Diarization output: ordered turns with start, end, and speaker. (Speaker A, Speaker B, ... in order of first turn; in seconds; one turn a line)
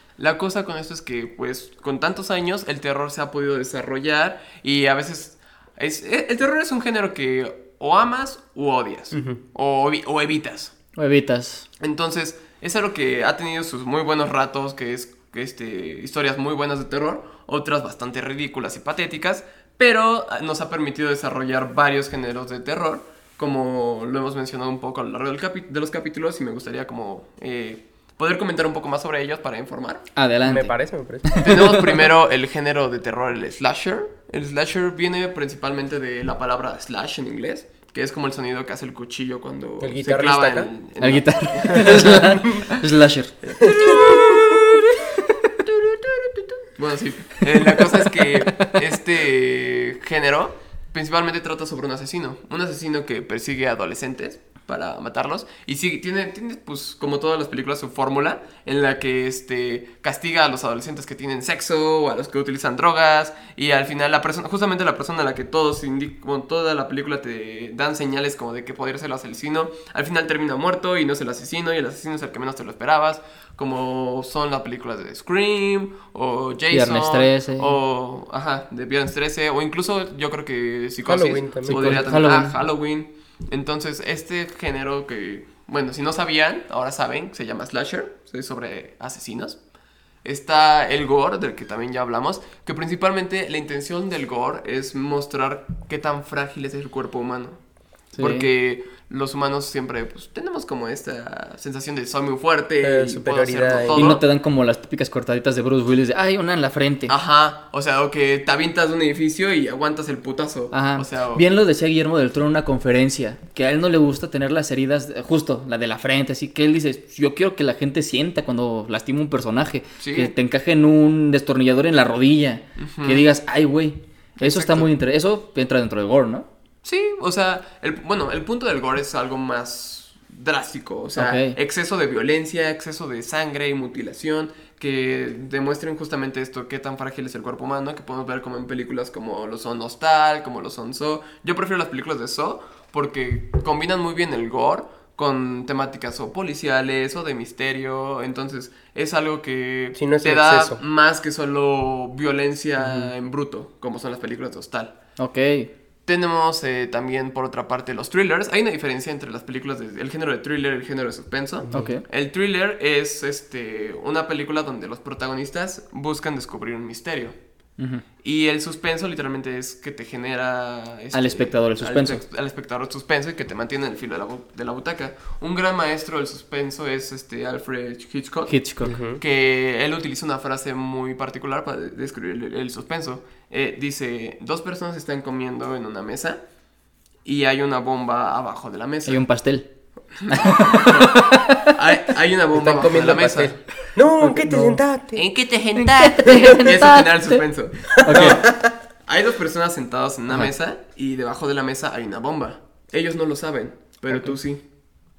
Speaker A: 0.2-10.7
Speaker B: 9.1-9.4
Speaker C: 11.0-11.7
Speaker A: 11.8-30.1
Speaker C: 30.1-31.8
Speaker B: 30.4-31.4
Speaker A: 31.4-42.6
Speaker B: 39.8-40.7
Speaker C: 41.0-46.2
Speaker B: 43.6-44.0
Speaker A: 43.6-44.3
Speaker A: 46.8-89.6
Speaker C: 47.5-48.8
Speaker C: 76.7-77.8
Speaker B: 81.0-82.1
Speaker C: 81.7-82.6
Speaker A: 90.2-97.6
Speaker C: 98.2-98.5
Speaker A: 98.2-104.2
Speaker B: 102.8-104.2
Speaker C: 103.9-107.1
Speaker A: 107.1-111.4
Speaker C: 110.7-126.5
Speaker A: 120.0-120.3
Speaker A: 122.8-123.2
Speaker A: 124.4-124.9
Speaker A: 126.8-154.9
Speaker C: 131.2-131.6
Speaker B: 149.9-150.8
Speaker C: 152.8-153.1
Speaker C: 155.2-155.7
Speaker A: 156.1-167.4
Speaker B: 161.6-161.9
Speaker C: 161.7-162.0
Speaker A: 168.2-186.4
Speaker C: 171.1-172.2
Speaker C: 178.5-178.9
Speaker B: 178.8-179.2
Speaker A: 187.2-189.2
Speaker C: 189.1-189.7
Speaker A: 190.1-193.6
Speaker C: 190.3-191.7
Speaker B: 192.5-195.2
Speaker C: 194.2-194.8
Speaker A: 195.1-198.5
Speaker C: 195.8-197.4
Speaker C: 198.0-198.4
Speaker B: 198.0-198.8
Speaker A: 199.1-204.6